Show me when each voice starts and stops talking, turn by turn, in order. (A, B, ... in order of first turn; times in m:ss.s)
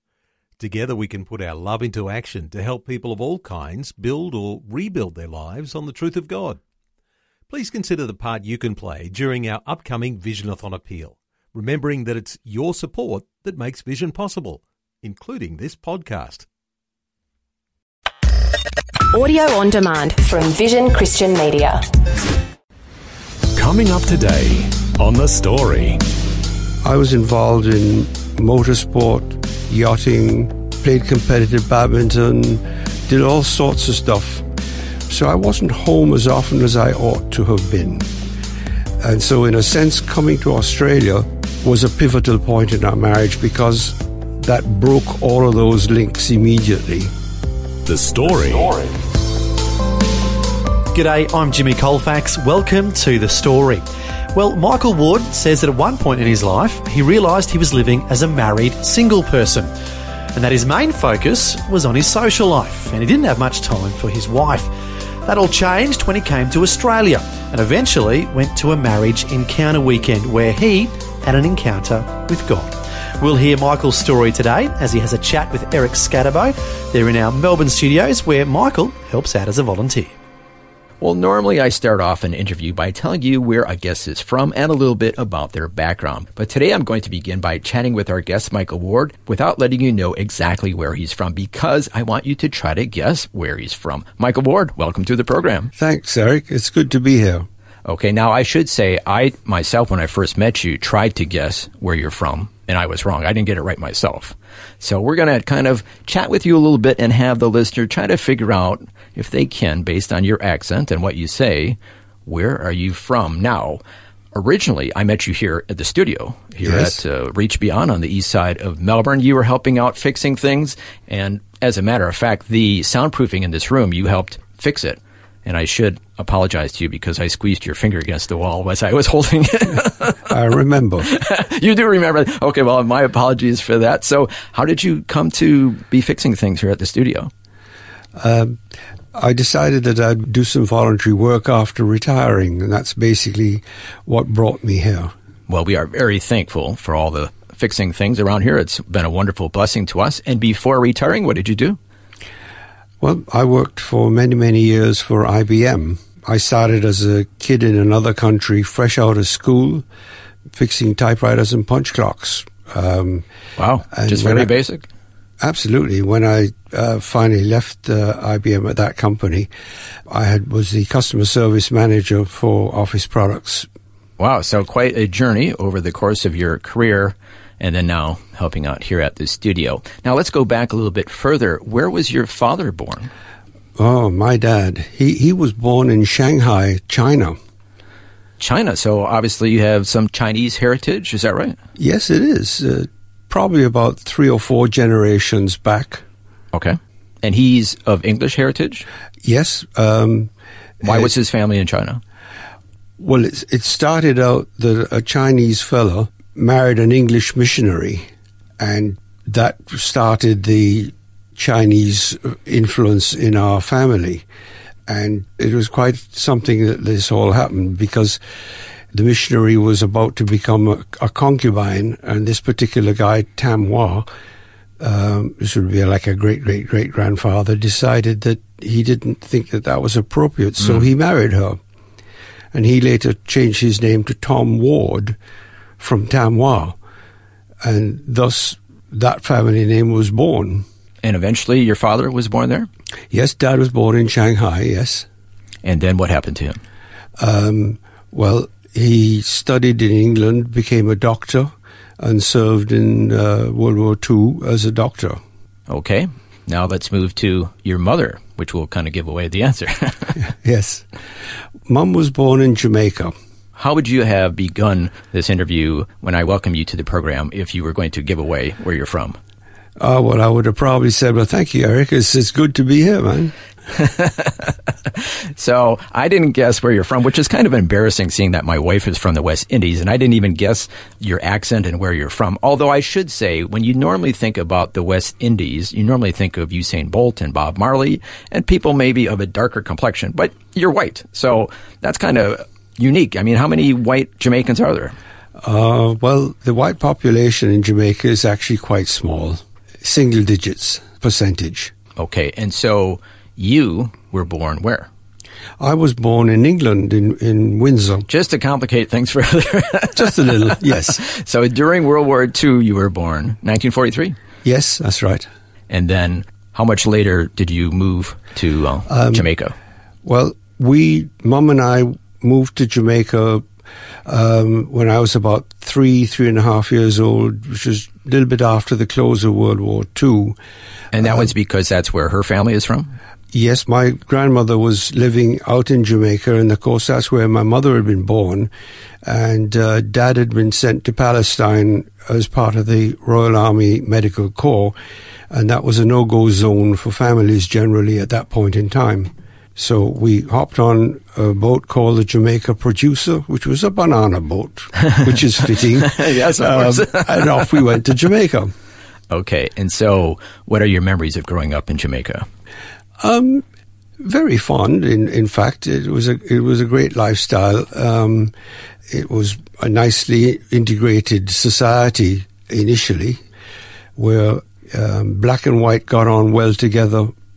0:00.6-0:06.6 A
0:07.5-0:16.5 A
0:19.1-0:21.8 B
0:23.5-0:26.0 C
0:26.8-0:34.5 D
0:35.1-0:38.1 D
0:39.0-0:47.1 D
0:47.8-0:48.9 C
0:50.9-0:53.8 E
0:54.3-0:59.7 E
1:00.4-1:04.7 E
1:05.2-1:20.1 E
1:21.0-1:35.7 F
1:35.8-1:37.5 D
1:37.8-1:53.8 F
1:54.3-2:10.3 F
1:56.6-1:57.0 D
2:10.2-2:11.1 D
2:11.0-2:17.3 F
2:18.2-2:18.6 D
2:19.1-2:25.1 D
2:25.5-2:31.8 F
2:33.0-2:39.8 D
2:40.5-2:43.2 D
2:43.6-2:44.9 F
2:43.9-2:44.5 D
2:45.4-2:49.5 D
2:50.1-2:53.7 D
2:54.2-3:03.1 F
3:03.8-3:07.4 D
3:08.4-3:11.6 F
3:11.8-3:16.0 D
3:16.5-3:18.8 F
3:19.2-3:20.3 D
3:20.8-3:21.1 D
3:20.8-3:22.0 F
3:23.0-3:28.1 D
3:28.6-3:34.2 D
3:34.9-3:38.2 D
3:38.9-3:44.1 D
3:44.8-3:51.6 D
3:52.5-3:55.2 D
3:55.8-3:56.8 D
3:57.6-4:00.7 D
4:01.0-4:02.7 F
4:03.1-4:05.1 D
4:05.6-4:06.6 F
4:07.2-4:15.2 D
4:15.7-4:20.2 F
4:20.4-4:20.9 D
4:21.7-4:23.1 D
4:23.6-4:29.2 F
4:29.8-4:33.3 D
4:33.8-4:54.9 F
4:55.4-5:01.7 D
5:02.0-5:04.9 F
5:05.6-5:08.1 D
5:08.1-5:14.2 F
5:10.0-5:11.0 D
5:14.4-5:15.3 D
5:15.7-5:19.5 F
5:18.9-5:19.2 D
5:20.0-5:23.4 D
5:24.1-5:30.4 D
5:30.9-5:32.9 F
5:31.0-5:31.3 D
5:33.3-5:38.5 D
5:39.0-5:44.8 D
5:45.3-5:58.5 D
5:55.5-5:57.5 F
5:59.1-6:02.3 F
6:03.0-6:03.4 D
6:04.0-6:08.3 D
6:08.9-6:13.2 D
6:14.0-6:17.1 D